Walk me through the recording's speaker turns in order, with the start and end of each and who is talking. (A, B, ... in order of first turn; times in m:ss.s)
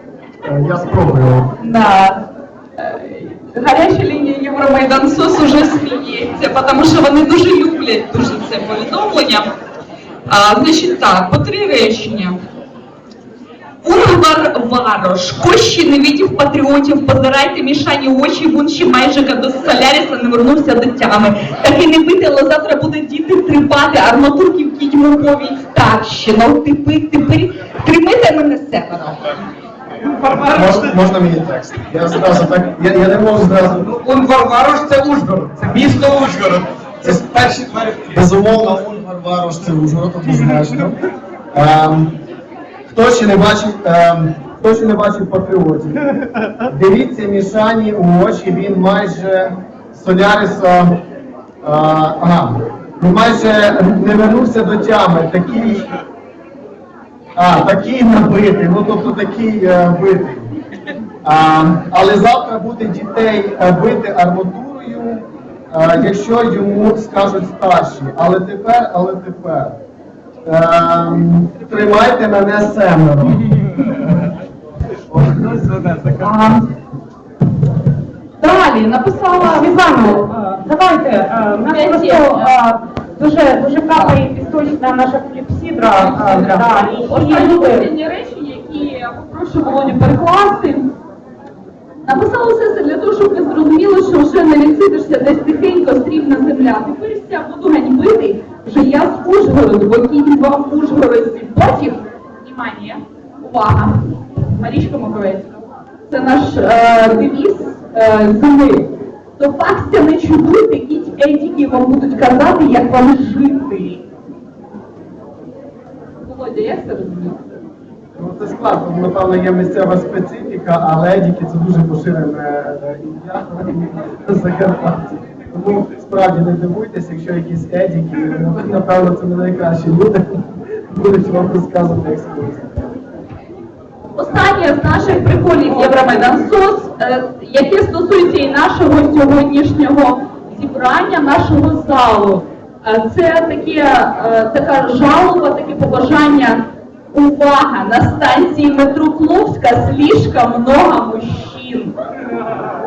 0:00.4-0:01.6 A
0:01.6-0:02.3 B
0:02.8-0:09.5 B
0:10.3-0:12.4 B
0:13.8-0:29.5 B
0:30.4-0:33.9 A
0:33.9-0:38.0 C
0:37.0-0:41.0 A
0:41.5-0:42.2 A
0:42.9-0:46.1 A
0:46.6-0:51.0 A
0:51.6-0:55.9 A
0:57.4-1:00.5 A
1:01.2-1:09.8 A
1:10.5-1:14.1 A
1:15.1-1:16.1 A
1:18.4-1:20.2 B
1:19.4-1:27.9 D
1:21.7-1:22.6 B
1:26.0-1:30.9 B
1:32.0-1:45.5 B
1:46.1-1:54.0 B
1:56.2-1:57.4 B
1:58.2-2:12.9 A
2:14.2-2:32.0 B